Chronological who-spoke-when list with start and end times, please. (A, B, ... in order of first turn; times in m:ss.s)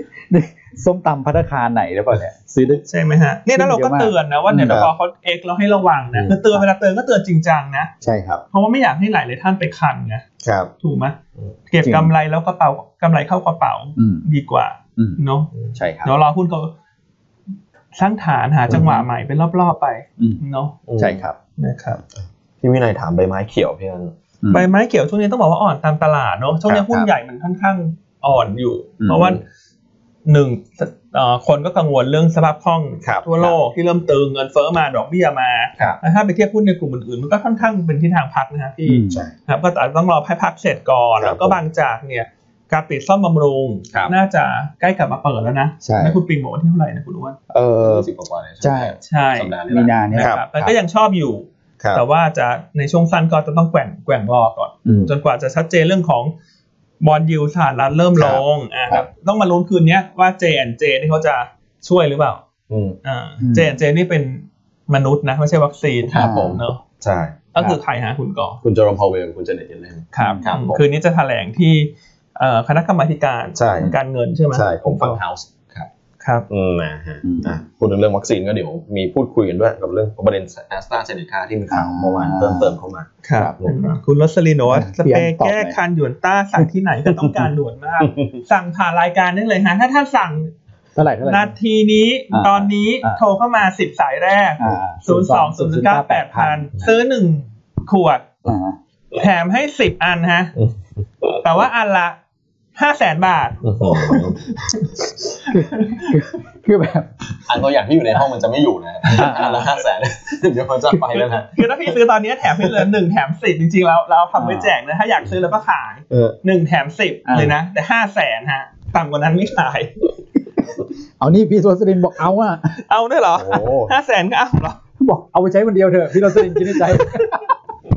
0:00.3-0:02.8 A
0:02.6-0:07.9 B
0:03.5-0:04.9 A
0:06.3-0:06.6 A
0:08.0-0:08.4 A
0:08.5-0:10.2 B
0:10.4-0:10.7 C
0:10.8-0:11.2 B
0:11.7-0:15.5 B
0:11.8-0:12.1 A
0:14.0-0:14.2 A
0:15.8-0:16.1 A
0:16.0-0:16.7 B
0:18.0-0:20.8 B
0:18.7-0:19.0 A
0:20.9-0:21.2 C
0:21.0-0:21.4 A
0:21.6-0:22.0 B
0:22.6-0:24.1 C
0:24.4-0:24.7 A
0:24.5-0:29.4 B
0:26.7-0:27.1 A
0:29.0-0:29.4 A
0:30.2-0:47.4 B
0:33.0-0:33.5 C
0:38.9-0:39.3 A
0:41.2-0:41.6 C
0:45.8-0:46.2 A
0:47.5-0:48.1 A
0:47.8-0:50.4 C
0:48.6-0:49.0 A
0:49.1-0:49.6 B
0:49.7-0:50.8 A
0:50.1-0:56.3 B
0:54.8-0:55.1 A
0:57.0-1:02.4 B
0:58.2-0:59.0 C
1:02.7-1:03.0 C
1:03.0-1:06.8 B
1:03.4-1:03.8 A
1:06.1-1:07.4 C
1:06.2-1:06.6 A
1:07.5-1:08.6 B
1:08.6-1:10.8 C
1:10.1-1:15.2 B
1:10.2-1:10.5 A
1:13.6-1:13.9 C
1:14.5-1:15.9 C
1:16.2-1:16.5 B
1:16.5-1:24.0 C
1:17.2-1:17.6 A
1:21.7-1:22.8 A
1:23.2-1:30.5 B
1:24.7-1:25.8 A
1:28.0-1:28.4 C
1:31.0-1:31.5 A
1:31.2-1:38.4 B
1:32.3-1:33.2 A
1:34.6-1:36.7 A
1:38.4-1:38.8 A
1:39.1-1:40.5 B
1:40.6-1:41.4 C
1:41.4-1:42.2 B
1:42.8-1:44.9 B
1:43.6-1:44.4 C
1:45.4-1:46.2 B
1:45.4-1:47.1 A
1:47.4-1:51.7 C
1:49.1-1:49.7 A
1:51.1-1:59.9 B
1:54.4-1:54.8 A
1:56.1-1:56.4 C
1:57.3-1:57.6 A
2:01.2-2:02.8 A
2:02.8-2:04.8 B
2:03.4-2:03.9 C
2:05.0-2:07.5 A